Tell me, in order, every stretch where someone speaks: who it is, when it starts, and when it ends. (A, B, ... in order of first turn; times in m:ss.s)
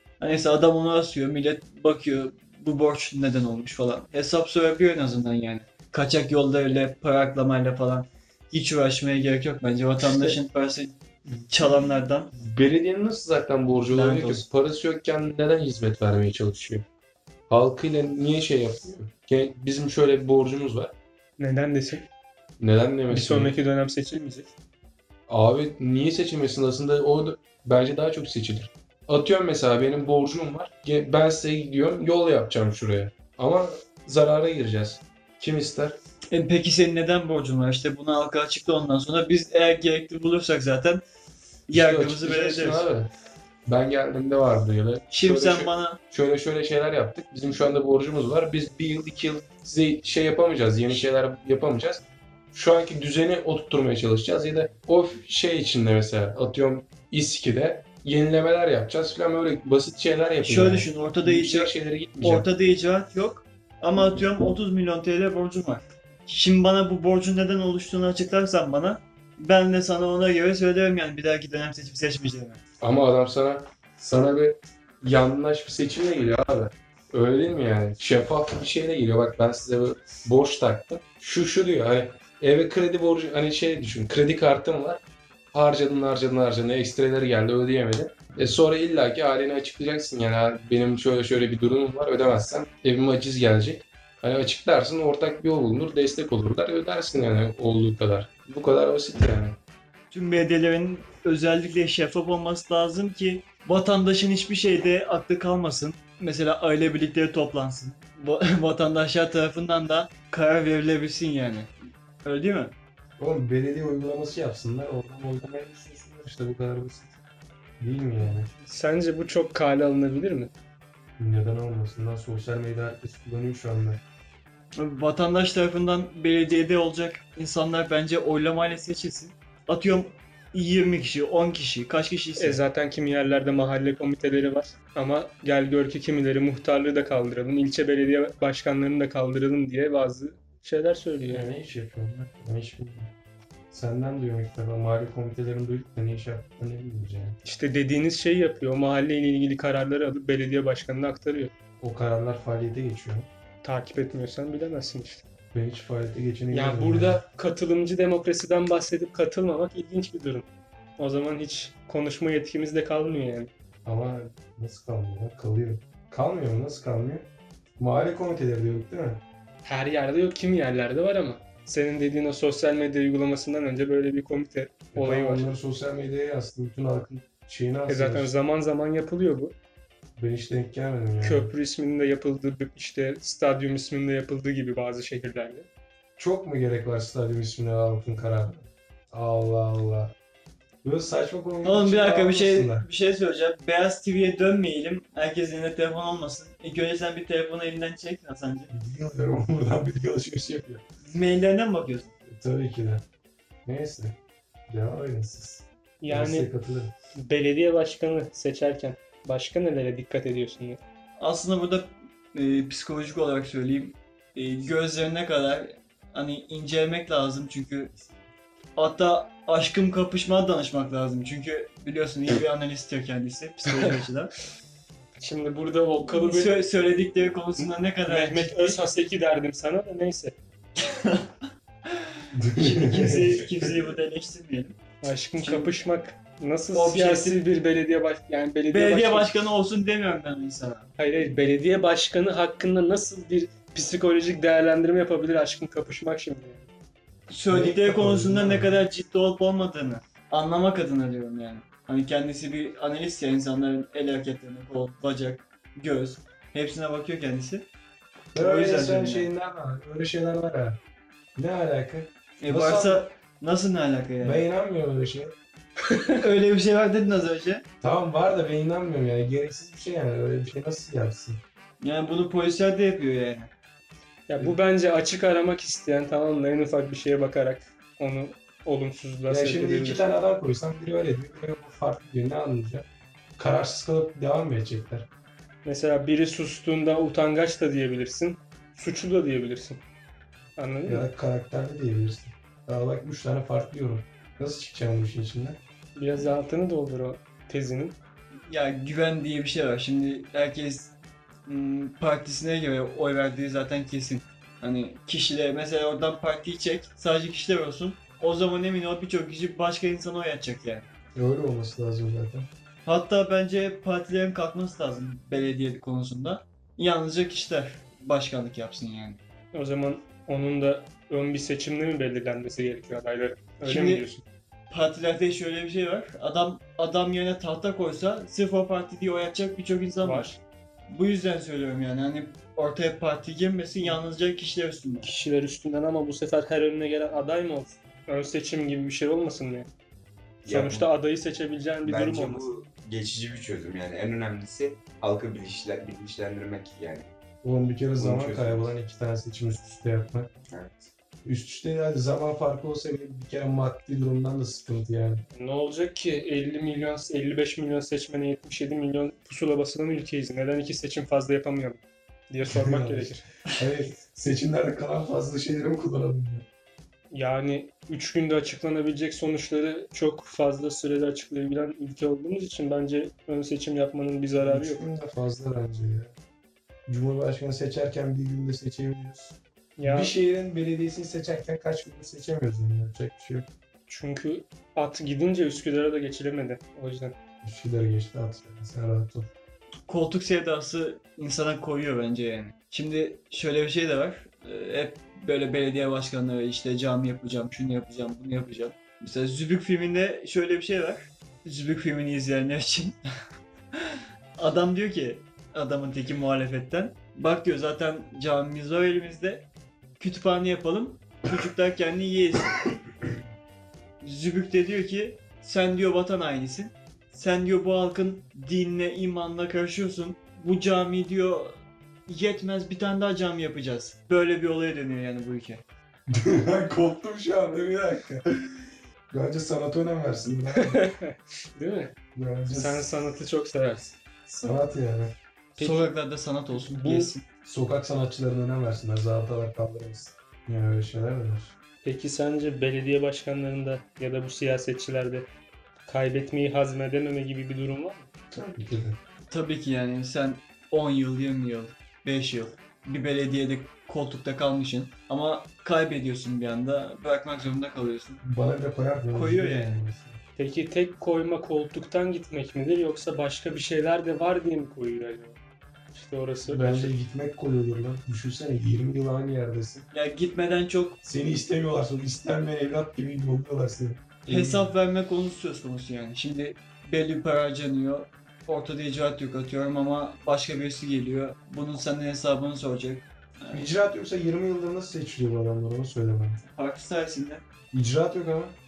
0:00.2-0:12.3 A
0:12.4-0:16.8 B
0:13.9-0:14.4 A
0:17.5-0:20.9 B
0:21.4-0:22.0 C
0:22.6-0:23.5 B
0:23.1-0:24.5 C
0:25.3-0:36.0 B
0:36.3-0:41.0 A
0:41.7-0:42.8 A
0:41.7-0:43.1 B
0:43.6-1:02.5 B
0:45.1-0:46.0 A
1:00.4-1:12.6 A
1:12.8-1:25.0 B
1:25.5-1:39.6 B
1:40.1-1:51.7 A
1:52.2-1:52.7 A
1:53.2-1:57.2 B
1:57.8-1:58.5 B
1:58.5-2:00.5 C
2:01.2-2:04.0 B
2:04.8-2:12.6 A
2:12.4-2:21.5 C
2:21.3-2:23.1 B
2:23.7-2:27.4 B
2:27.4-2:31.5 C
2:31.8-2:33.3 B
2:33.6-2:35.2 C
2:35.5-2:37.2 B
2:36.5-2:40.5 C
2:41.0-2:43.5 C
2:43.8-2:49.2 B
2:49.6-2:55.5 C
2:54.9-2:58.3 B
2:57.9-2:59.6 C
3:00.2-3:01.5 B
3:01.2-3:05.7 C
3:06.2-3:10.1 B
3:10.8-3:12.9 B
3:11.6-3:18.7 A
3:18.7-3:20.8 B
3:21.0-3:22.1 A
3:22.3-3:23.0 B
3:23.6-3:24.2 B
3:24.7-3:26.9 B
3:26.0-3:26.5 C
3:27.1-3:30.8 C
3:31.2-3:37.9 A
3:38.8-3:44.3 A
3:45.2-3:46.6 C
3:46.1-3:48.8 A
3:48.1-3:50.4 C
3:50.8-3:51.3 A
3:51.9-3:54.8 A
3:52.3-3:53.7 B
3:55.0-3:59.3 C
3:55.4-3:55.7 A
3:56.7-3:57.4 A
3:58.7-4:00.9 A
4:01.0-4:06.7 C
4:07.3-4:17.7 A
4:07.5-4:08.8 B
4:18.3-4:19.3 A
4:18.3-4:20.8 B
4:21.4-4:23.0 B
4:22.4-4:24.4 A
4:24.2-4:25.3 B
4:26.2-4:27.6 A
4:27.8-4:31.4 B
4:31.8-4:33.5 A
4:34.3-4:40.0 C
4:39.3-4:42.8 B
4:43.4-4:45.1 B
4:45.6-4:49.8 C
4:50.6-4:51.1 C
4:50.9-4:55.6 B
4:56.0-4:58.0 C
4:58.4-5:00.9 A
5:01.4-5:10.9 A
5:11.1-5:12.5 B
5:12.8-5:19.2 A
5:19.5-5:24.2 C
5:23.6-5:24.1 A
5:24.7-5:30.4 A
5:30.0-5:30.4 C
5:30.9-5:35.1 A
5:35.0-5:39.7 C
5:40.4-5:40.9 D
5:40.5-5:42.5 C
5:41.8-5:47.1 D
5:47.4-5:50.3 B
5:48.0-5:48.7 D
5:50.5-5:50.9 D
5:51.2-5:55.2 B
5:55.3-6:03.2 C
6:02.4-6:06.4 B
6:07.1-6:14.9 C
6:14.4-6:16.1 B
6:16.9-6:23.5 B
6:19.8-6:20.1 C
6:23.9-6:27.1 C
6:27.4-6:29.3 B
6:29.9-6:43.0 A
6:43.8-6:49.4 A
6:50.0-6:52.8 A
6:54.0-7:05.6 A
7:06.1-7:08.2 B
7:09.1-7:10.8 B
7:10.6-7:11.9 C
7:12.1-7:12.9 B
7:12.5-7:14.5 C
7:14.4-7:15.2 B
7:15.6-7:15.9 C
7:15.6-7:17.2 A
7:16.6-7:17.1 C
7:17.4-7:21.5 B
7:21.8-7:25.3 C
7:25.8-7:28.1 C
7:28.3-7:29.0 B
7:29.3-7:38.2 A
7:38.2-7:40.2 B
7:39.1-7:39.8 A
7:40.4-7:45.4 C
7:45.9-7:46.9 C
7:46.5-7:49.9 B
7:49.9-7:51.0 A
7:51.0-7:54.7 B
7:54.3-8:03.7 A
8:03.5-8:06.4 B
8:06.4-8:07.4 A
8:07.7-8:08.6 B